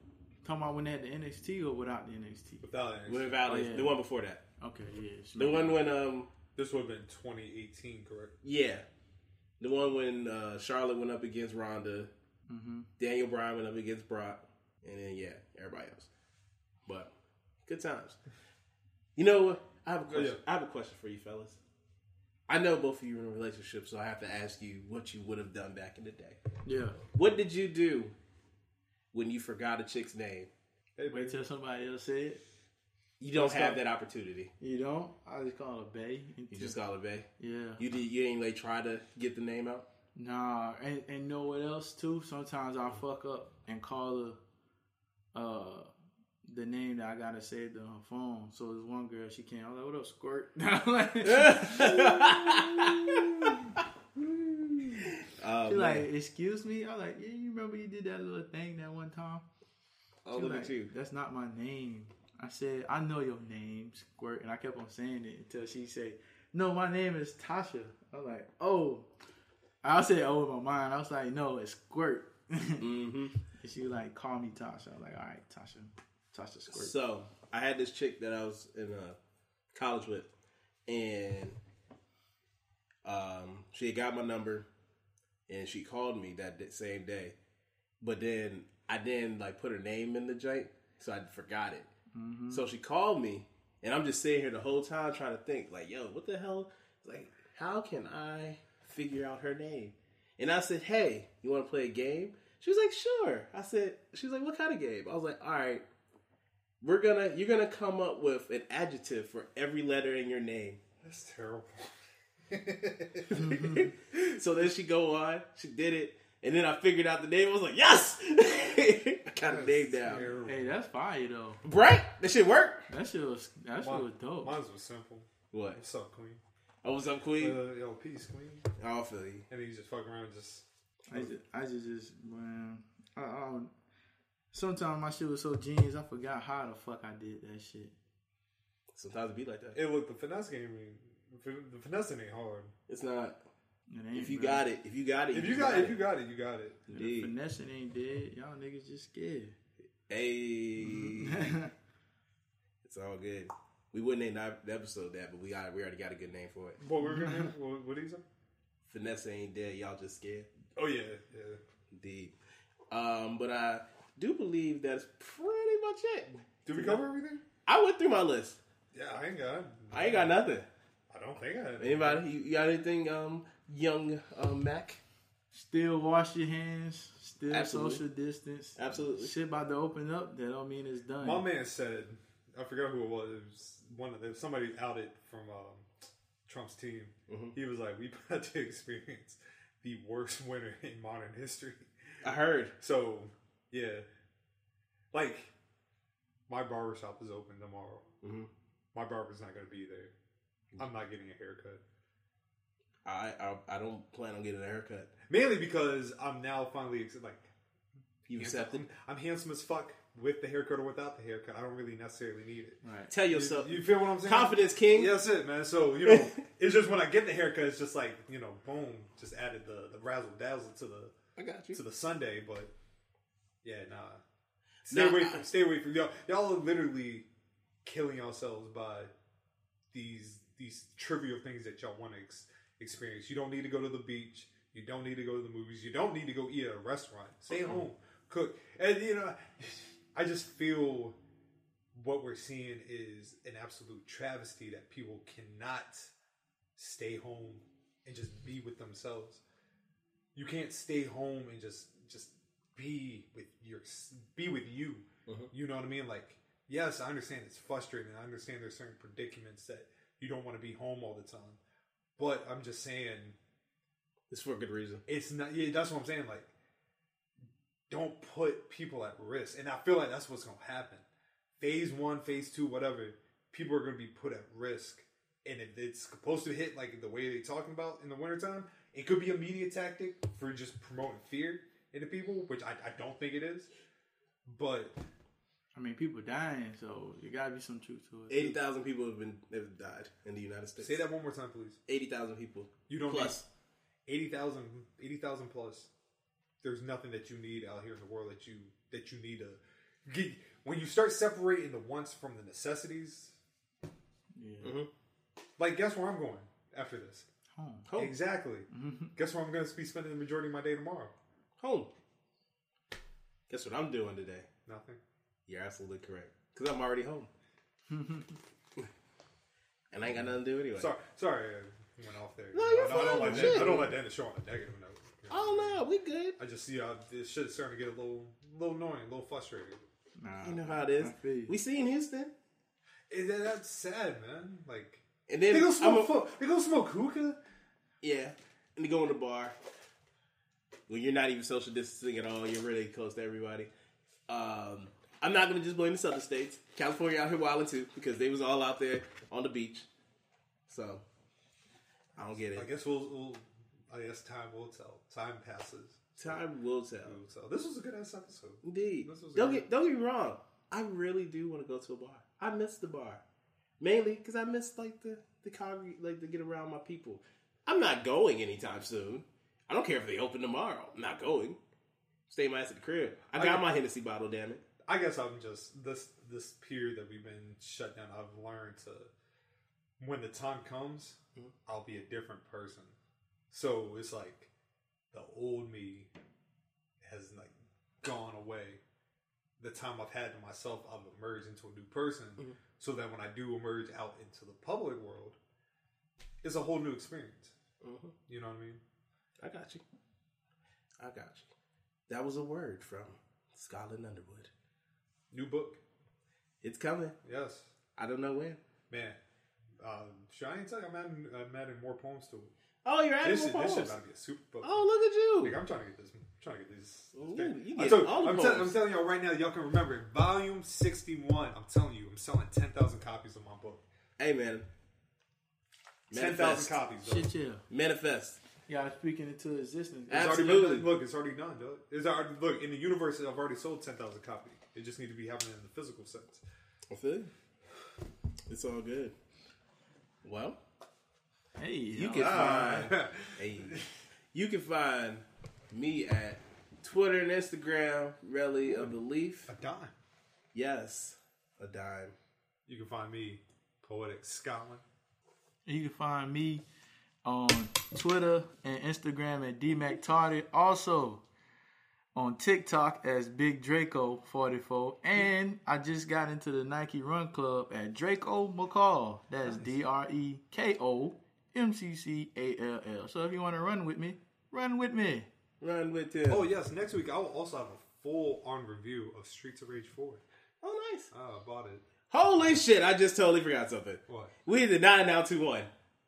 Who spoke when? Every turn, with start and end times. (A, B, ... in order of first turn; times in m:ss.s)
0:00.4-0:02.6 A
0:02.6-0:03.4 B
0:03.1-0:04.4 C
0:03.5-0:04.0 A
0:04.6-0:05.8 A
0:05.4-0:06.3 C
0:06.6-0:08.3 B
0:08.4-0:08.8 C
0:09.6-0:12.1 C
0:12.5-0:12.9 A
0:13.0-0:16.1 C
0:17.6-0:18.2 C
0:19.2-0:21.6 C
0:20.1-0:20.4 B
0:22.5-0:26.4 C
0:26.6-0:27.0 A
0:27.1-0:28.1 C
0:29.1-0:30.5 C
0:31.0-0:31.4 B
0:31.1-0:32.4 A
0:33.2-0:34.5 C
0:33.3-0:33.8 A
0:34.6-0:36.8 A
0:36.5-0:39.8 C
0:37.4-0:37.8 A
0:40.1-0:44.4 A
0:45.3-0:45.9 A
0:46.4-0:52.6 A
0:51.2-0:53.8 C
0:55.2-0:56.0 C
0:55.7-0:59.4 A
1:00.2-1:00.9 C
1:00.3-1:09.1 A
1:09.8-1:12.8 A
1:12.8-1:13.3 C
1:13.6-1:16.9 A
1:16.7-1:19.2 C
1:19.7-1:20.3 C
1:20.9-1:21.6 C
1:23.0-1:24.6 C
1:25.5-1:27.4 C
1:28.0-1:31.9 C
1:32.1-1:32.6 A
1:32.5-1:45.8 C
1:46.8-1:50.8 C
1:51.0-1:51.9 B
1:52.5-1:53.3 B
1:53.3-1:53.9 A
1:53.5-2:00.3 C
1:59.4-2:00.7 B
2:00.4-2:01.6 A
2:01.6-2:02.8 C
2:02.9-2:04.5 A
2:03.8-2:06.4 B
2:05.5-2:05.8 C
2:06.8-2:07.6 C
2:07.4-2:08.7 B
2:08.8-2:09.4 C
2:09.5-2:11.3 B
2:11.1-2:13.7 A
2:14.5-2:17.9 A
2:18.9-2:19.8 C
2:19.7-2:22.7 B
2:22.9-2:23.4 C
2:23.9-2:24.6 A
2:24.1-2:26.0 C
2:25.3-2:26.8 B
2:26.9-2:29.5 A
2:26.9-2:27.3 C
2:30.1-2:31.6 C
2:30.8-2:31.7 A
2:32.8-2:36.8 C
2:36.8-2:38.2 B
2:37.0-2:37.4 A
2:38.9-2:40.5 C
2:40.8-2:41.6 B
2:41.9-2:42.3 C
2:42.9-2:47.0 C
2:46.7-2:47.4 B
2:47.6-2:48.6 C
2:48.9-2:50.3 B
2:49.9-2:50.7 C
2:51.1-2:52.2 B
2:51.8-2:55.0 C
2:55.5-3:01.5 A
2:57.5-2:58.0 C
2:58.8-2:59.3 C
3:01.2-3:11.9 B
3:07.3-3:07.5 C
3:12.2-3:12.7 C
3:12.8-3:14.0 B
3:15.1-3:15.5 B
3:16.5-3:18.0 B
3:18.2-3:18.5 C
3:18.9-3:20.1 B
3:20.8-3:21.8 B
3:23.0-3:25.1 C
3:25.3-3:27.5 B
3:28.3-3:28.8 C
3:28.3-3:41.1 B
3:32.8-3:33.1 A
3:33.1-3:35.2 C
3:36.0-3:36.3 C
3:41.4-3:41.8 C
3:41.7-3:42.7 B
3:43.6-3:44.2 B
3:44.8-3:47.3 B
3:44.9-3:45.4 C
3:47.8-3:49.1 B
3:49.9-4:01.2 B
4:01.9-4:06.1 B
4:06.8-4:09.4 B
4:10.3-4:21.6 B
4:22.2-4:23.4 B
4:24.3-4:25.0 C
4:25.1-4:26.5 B
4:27.9-4:31.0 B
4:31.6-4:43.7 B
4:44.4-4:45.0 B
4:45.7-4:48.6 A
4:48.3-4:51.0 C
4:50.8-4:51.8 B
4:51.9-4:53.4 C
4:52.9-4:53.4 B
4:54.1-4:55.9 B
4:56.6-5:03.4 B
5:04.3-5:04.8 A
5:04.6-5:04.9 C
5:05.6-5:07.2 B
5:07.5-5:07.9 A
5:07.9-5:08.1 C
5:08.0-5:11.1 B
5:08.7-5:09.1 A
5:11.6-5:11.9 C
5:13.5-5:14.5 C
5:14.6-5:15.0 B
5:15.5-5:17.3 C
5:17.9-5:18.4 A
5:19.9-5:20.9 C
5:20.8-5:25.8 B
5:22.5-5:23.9 C
5:23.0-5:23.9 A
5:25.3-5:26.4 C
5:26.4-5:29.8 B
5:30.2-5:31.5 A
5:30.4-5:32.3 C
5:33.1-5:37.4 B
5:35.3-5:36.1 C
5:38.0-5:39.6 C
5:40.9-5:43.7 C
5:44.3-5:49.9 C
5:50.7-5:51.0 C
5:52.2-5:52.7 C
5:52.5-5:56.4 B
5:56.2-5:57.2 C
5:57.0-5:59.6 B
5:58.6-6:03.2 C
6:03.8-6:11.6 C
6:12.3-6:14.6 C
6:13.3-6:13.7 B
6:14.8-6:19.1 B
6:20.0-6:23.0 B
6:23.5-6:24.5 B
6:25.1-6:26.1 B
6:27.0-6:28.8 B
6:29.6-6:35.4 B
6:36.4-6:37.5 B
6:37.8-6:38.1 C
6:38.3-6:38.8 B
6:39.4-6:39.8 C
6:41.0-6:41.5 C
6:42.1-6:44.5 C
6:45.3-6:45.8 B
6:46.6-6:47.2 C
6:47.2-6:47.7 B
6:48.0-6:48.6 C
6:48.9-6:49.2 B
6:49.8-6:52.5 B
6:52.8-6:54.0 C
6:53.2-6:54.9 B
6:54.6-6:55.6 C
6:55.4-7:03.8 B
6:57.1-6:58.8 C
7:04.2-7:04.7 C
7:06.1-7:07.3 B
7:06.1-7:06.8 C
7:07.0-7:07.6 A
7:07.7-7:08.4 C
7:08.7-7:10.6 A
7:10.1-7:10.9 C
7:10.1-7:16.4 B
7:16.9-7:17.3 C
7:18.5-7:19.1 C
7:20.2-7:20.6 C
7:21.6-7:22.9 A
7:22.0-7:23.8 C
7:22.2-7:23.8 B
7:24.3-7:29.5 C
7:29.5-7:29.9 B
7:30.5-7:32.1 C
7:32.6-7:34.8 B
7:35.6-7:36.6 A
7:37.2-7:41.2 A
7:42.1-7:55.3 A
7:55.6-7:56.5 C
7:56.3-8:00.2 B
8:00.6-8:01.1 C
8:01.1-8:01.8 B
8:02.1-8:05.7 C